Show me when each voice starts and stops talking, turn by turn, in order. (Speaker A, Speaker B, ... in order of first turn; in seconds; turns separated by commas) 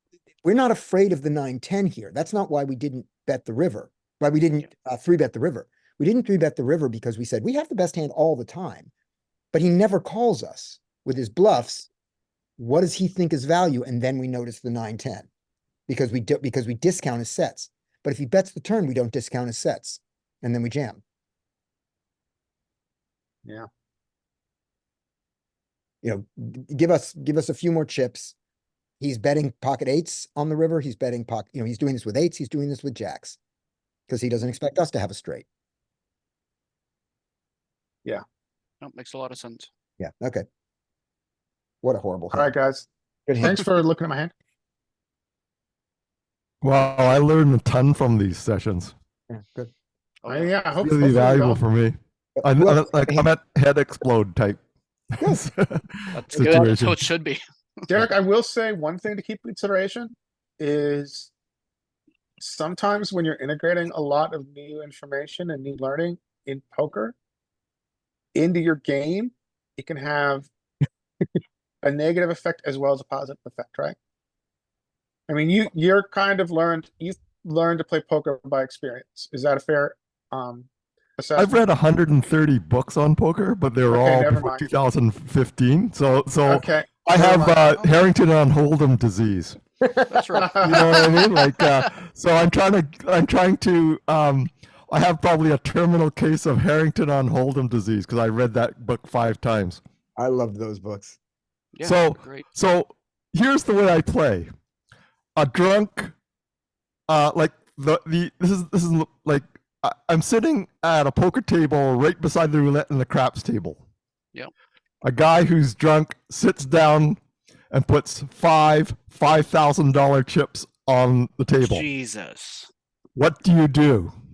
Speaker A: 0.4-8.9, Speaker A: 9.5-11.9, Speaker A: 12.6-15.3, Speaker A: 15.9-21.0, Speaker A: 26.0-28.3, Speaker A: 29.0-33.4, Speaker A: 34.1-35.5, Speaker B: 38.8-39.7, Speaker A: 40.0-40.4, Speaker A: 41.8-42.5, Speaker C: 42.3-42.9, Speaker A: 43.3-43.6, Speaker C: 43.4-44.3, Speaker D: 46.6-48.9, Speaker A: 49.3-49.7, Speaker B: 50.2-50.5, Speaker C: 50.2-51.6, Speaker D: 50.8-54.6, Speaker A: 52.4-53.3, Speaker D: 55.1-57.0, Speaker B: 56.1-57.4, Speaker A: 56.3-56.8, Speaker C: 57.9-61.3, Speaker C: 62.4-67.1, Speaker C: 68.3-70.5, Speaker C: 71.8-74.0, Speaker C: 75.3-81.6, Speaker D: 81.3-89.6, Speaker C: 83.9-84.7, Speaker C: 86.5-87.7, Speaker A: 89.8-90.1, Speaker B: 90.1-91.2, Speaker C: 90.4-90.9, Speaker D: 90.5-99.8, Speaker A: 100.2-101.2, Speaker B: 101.7-102.4, Speaker D: 101.8-104.5, Speaker D: 105.3-106.1, Speaker D: 107.1-113.8, Speaker D: 115.0-117.2, Speaker D: 117.7-121.9, Speaker B: 121.6-122.7, Speaker D: 123.1-124.1